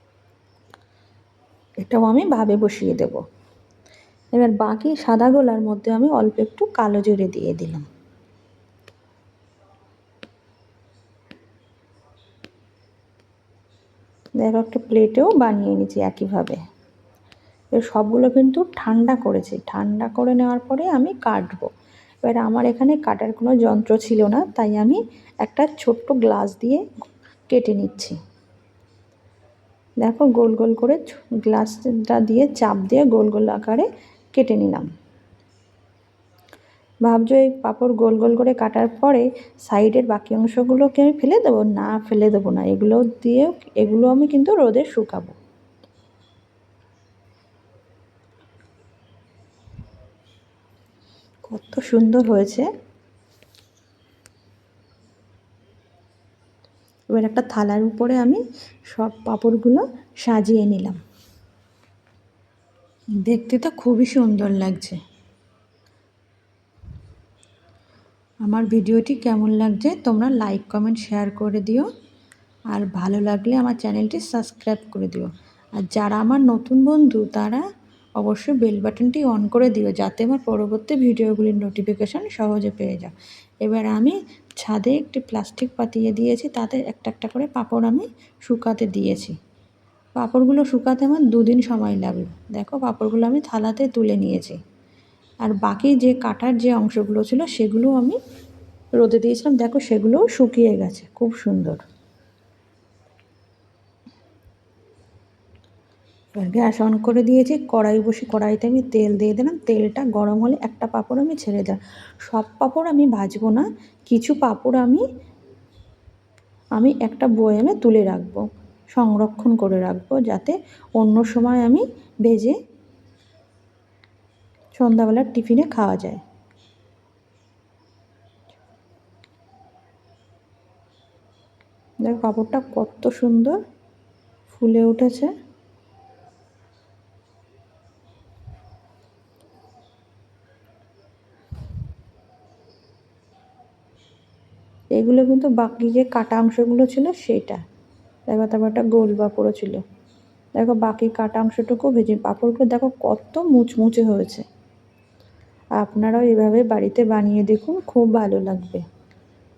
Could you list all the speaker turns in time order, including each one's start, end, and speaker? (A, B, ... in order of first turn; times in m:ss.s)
0:01.8-0:03.2 A
0:04.3-0:07.9 A
0:14.4-0:16.6 A
0:17.8-0:21.7 A
0:22.2-0:26.9 A
0:27.5-0:28.2 A
0:30.0-0:34.9 A
0:37.0-0:45.4 A
0:51.5-0:52.7 A
0:57.1-1:01.0 A
1:03.2-1:05.0 A
1:08.4-1:11.9 A
1:12.7-1:17.6 A
1:18.2-1:29.4 A
1:30.2-1:34.6 A
1:35.4-1:38.2 A
1:39.0-1:41.8 A
1:46.4-1:55.0 A
1:56.8-2:02.6 A
2:04.8-2:06.2 A
2:12.0-2:13.6 A
2:14.5-2:15.3 A
2:25.0-2:27.6 A
2:28.3-2:29.8 A
2:30.6-2:34.5 A
2:35.8-2:38.8 A